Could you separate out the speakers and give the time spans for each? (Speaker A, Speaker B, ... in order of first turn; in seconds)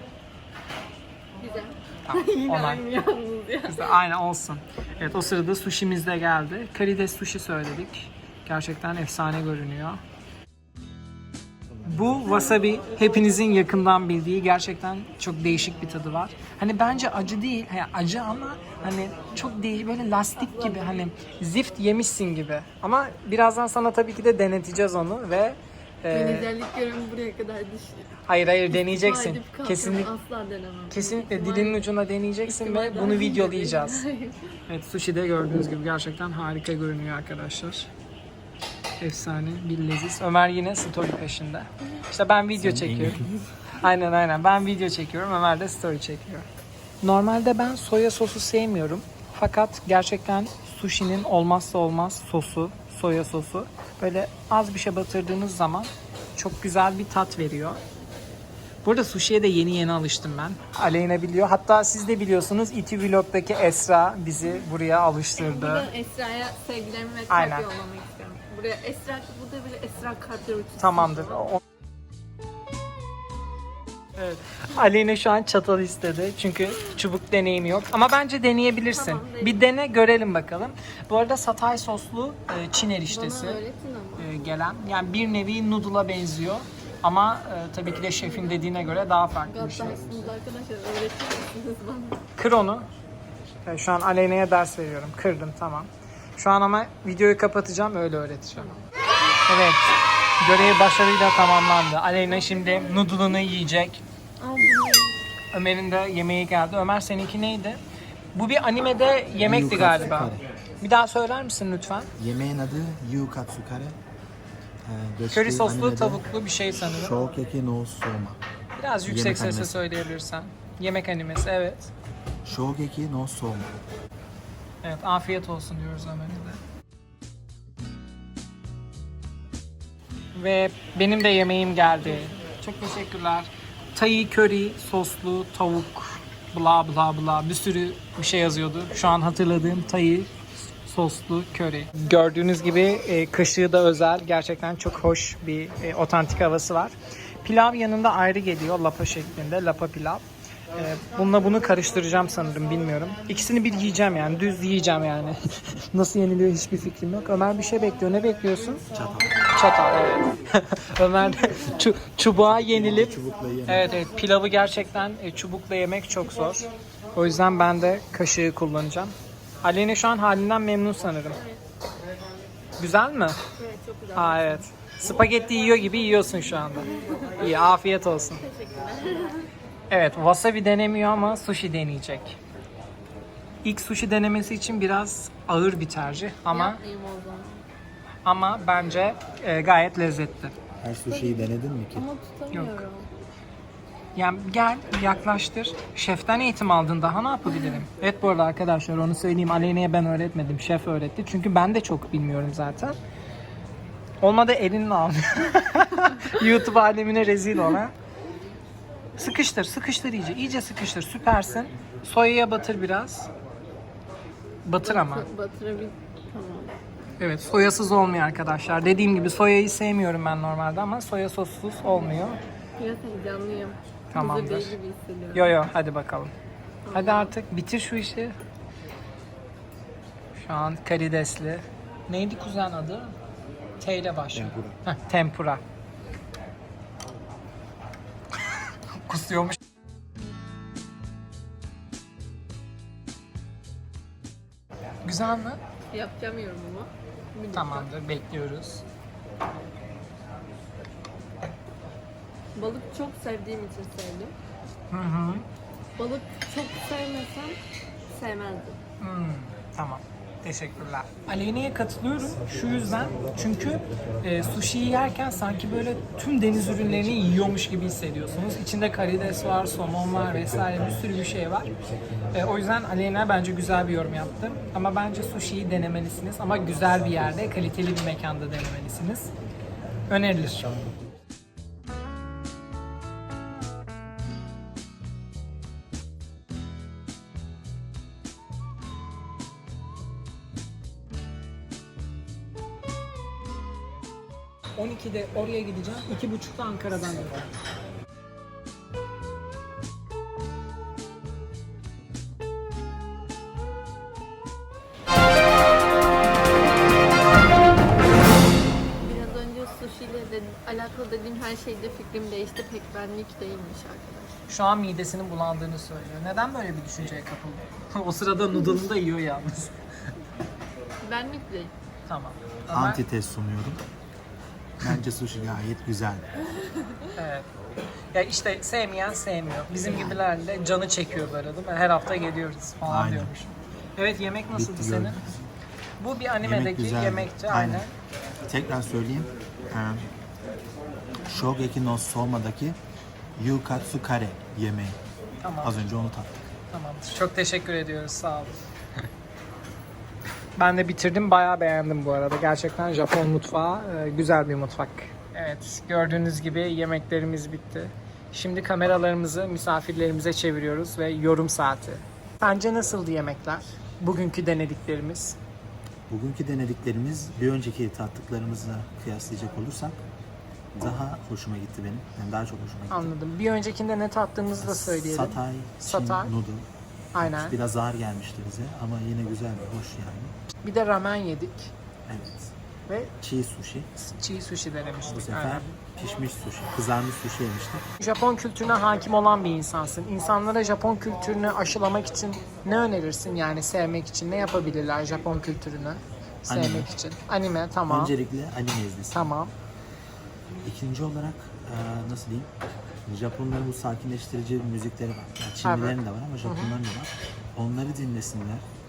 Speaker A: 1.4-3.9, 26.1-28.1, 28.7-31.9, 32.5-34.5, 65.4-71.5, 78.8-79.7, 83.1-84.3, 88.2-92.2, 104.4-105.2, 173.6-174.7, 178.4-179.5, 186.5-187.7, 191.1-193.1, 214.8-216.7, 222.8-225.6, 226.8-227.3, 245.9-247.9, 252.6-254.3, 256.0-257.6, 258.1-258.8, 309.0-314.3, 321.0-321.7
Speaker B: 2.1-2.9, 3.7-10.0, 11.8-26.5, 28.3-30.1, 30.9-34.0, 34.7-37.9, 39.0-43.2, 43.8-46.5, 47.0-57.8, 58.8-65.9, 67.3-67.7, 70.8-71.6, 74.2-83.6, 84.2-90.0, 92.4-92.9, 93.7-98.8, 99.5-104.0, 105.5-107.8, 108.3-112.1, 115.3-117.2, 118.8-121.9, 124.8-126.6, 130.3-150.2, 150.7-158.8, 159.5-171.4, 172.8-173.4, 174.1-178.4, 179.9-182.4, 183.6-186.8, 188.2-190.6, 192.5-192.8, 194.2-203.0, 204.2-207.9, 209.2-213.3, 214.7-215.3, 217.2-222.4, 224.1-224.8, 225.3-226.3, 226.9-228.3, 230.4-233.1, 233.8-235.6, 238.5-239.6, 245.1-245.6, 247.5-248.8, 254.9-255.4, 259.0-271.7, 272.3-279.3, 280.1-280.8, 294.8-297.5, 314.5-319.8, 322.1-323.0, 327.1-327.5, 328.1-335.2, 336.0-337.9, 345.4-345.9, 346.7-348.6, 350.6-365.4, 372.9-376.3, 377.1-377.6, 380.6-381.7, 382.9-383.1, 384.0-385.7, 388.0-398.2, 399.1-399.5, 405.6-406.7
Speaker C: 42.6-43.5, 109.4-110.4, 112.2-114.0, 114.8-116.2, 117.0-118.4, 119.1-119.8, 122.4-123.8, 158.9-159.4, 162.4-164.0, 190.8-192.1, 234.3-234.8, 322.7-323.8, 324.8-326.3, 332.9-333.3, 334.5-335.5, 336.4-337.9, 338.5-340.1, 341.2-342.8, 343.4-345.0, 345.6-346.4, 366.1-370.0, 370.7-373.1, 374.6-376.7, 377.2-380.3, 382.1-382.5, 383.2-383.9, 385.1-387.9, 396.5-396.9, 397.9-399.4, 400.6-402.5, 403.1-408.6